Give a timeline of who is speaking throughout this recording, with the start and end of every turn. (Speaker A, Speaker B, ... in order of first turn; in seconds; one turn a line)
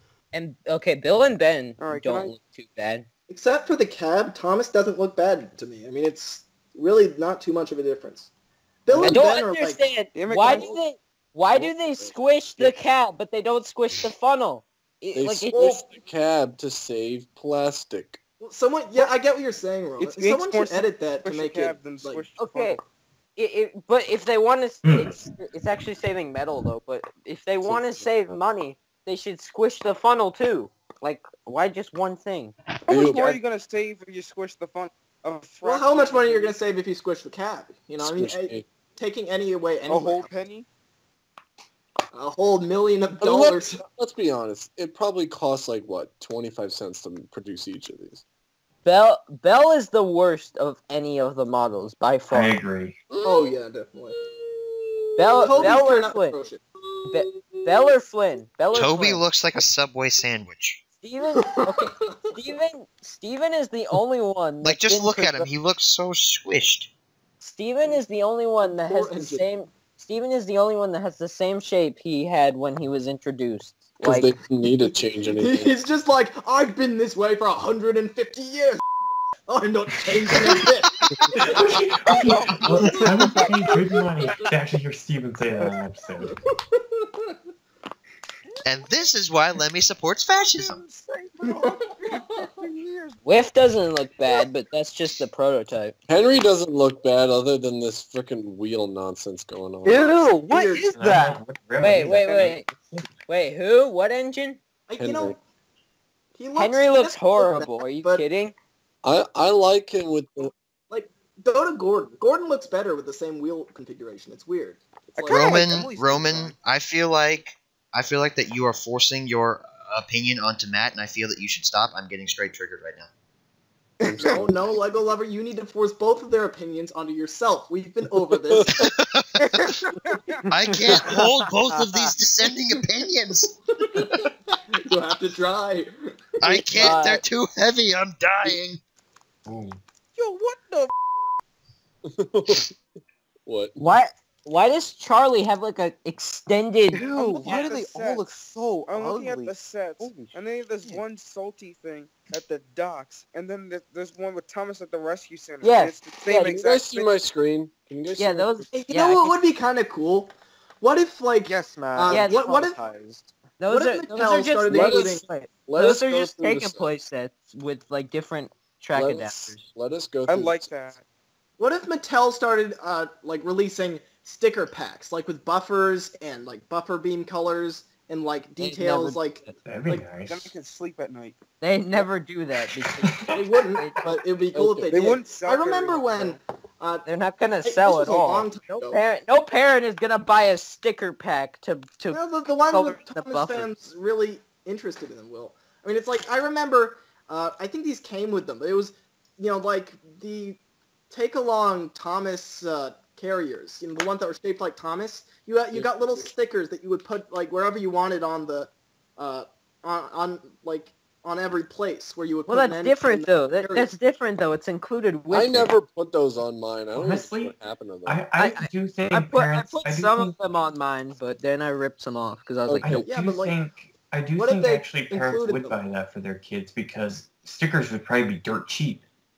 Speaker A: 0.3-3.1
Speaker B: 1.8-2.3
Speaker C: 3.3-8.3
Speaker C: 8.9-9.8
Speaker D: 8.9-9.2
Speaker A: 9.1-15.8
Speaker B: 10.2-10.7
Speaker D: 10.4-10.8
Speaker D: 11.5-12.7
Speaker D: 15.2-18.2
Speaker C: 18.4-22.2
Speaker B: 20.0-22.8
Speaker A: 22.4-22.8
Speaker A: 23.4-32.5
Speaker E: 24.8-25.2
Speaker D: 27.6-28.4
Speaker D: 32.9-33.4
Speaker B: 32.9-36.6
Speaker C: 35.6-40.3
Speaker D: 38.0-38.7
Speaker B: 39.9-40.7
Speaker C: 42.1-43.8
Speaker D: 43.2-48.2
Speaker A: 48.9-52.6
Speaker E: 52.3-53.0
Speaker D: 53.1-53.5
Speaker C: 53.2-54.2
Speaker D: 54.1-55.8
Speaker A: 55.2-56.4
Speaker C: 55.3-56.6
Speaker A: 57.1-59.2
Speaker F: 58.7-60.8
Speaker A: 61.0-65.5
Speaker C: 61.4-62.2
Speaker F: 64.6-66.9
Speaker A: 67.4-74.3
Speaker C: 68.8-69.5
Speaker D: 74.0-75.7
Speaker C: 74.6-78.8
Speaker C: 79.5-84.5
Speaker E: 80.3-80.7
Speaker E: 81.2-86.4
Speaker B: 82.2-83.4
Speaker C: 86.2-87.4
Speaker F: 88.6-90.8
Speaker B: 90.6-93.2
Speaker C: 91.4-92.7
Speaker A: 93.2-95.9
Speaker D: 96.1-100.0
Speaker A: 99.8-102.7
Speaker C: 99.9-101.0
Speaker E: 100.9-103.1
Speaker B: 102.0-102.6
Speaker A: 103.3-104.6
Speaker C: 104.9-105.4
Speaker D: 105.0-105.4
Speaker C: 106.3-108.2
Speaker A: 106.5-108.5
Speaker D: 109.0-110.5
Speaker C: 110.9-115.6
Speaker B: 115.2-116.6
Speaker F: 115.3-123.1
Speaker D: 124.0-124.6
Speaker C: 124.2-128.9
Speaker D: 128.3-128.9
Speaker F: 128.8-129.7
Speaker B: 129.6-130.4
Speaker G: 130.5-132.1
Speaker F: 130.5-133.5
Speaker C: 133.7-135.9
Speaker F: 136.4-138.8
Speaker C: 136.5-137.0
Speaker A: 136.8-137.2
Speaker E: 139.5-139.8
Speaker B: 140.2-140.9
Speaker D: 142.1-142.8
Speaker D: 143.5-143.8
Speaker A: 143.8-147.0
Speaker G: 146.9-150.3
Speaker B: 147.1-148.3
Speaker B: 148.9-157.2
Speaker A: 155.6-156.6
Speaker D: 156.4-158.7
Speaker A: 158.2-159.3
Speaker C: 158.7-162.8
Speaker G: 161.5-163.3
Speaker A: 162.1-162.4
Speaker A: 163.6-169.6
Speaker C: 163.7-165.2
Speaker D: 164.7-166.9
Speaker D: 168.9-170.7
Speaker B: 170.3-171.0
Speaker C: 171.6-180.1
Speaker A: 178.6-179.6
Speaker E: 179.6-180.5
Speaker B: 180.3-181.4
Speaker A: 181.6-184.0
Speaker E: 183.0-183.4
Speaker C: 183.3-187.1
Speaker D: 184.5-184.9
Speaker B: 184.9-186.4
Speaker A: 187.1-193.7
Speaker C: 187.6-189.0
Speaker C: 192.1-213.9
Speaker D: 205.7-206.2
Speaker A: 212.5-215.7
Speaker D: 215.3-218.2
Speaker E: 216.9-217.5
Speaker E: 218.1-220.3
Speaker A: 218.4-223.0
Speaker D: 222.7-223.1
Speaker E: 222.8-229.0
Speaker C: 223.1-223.6
Speaker C: 224.3-225.8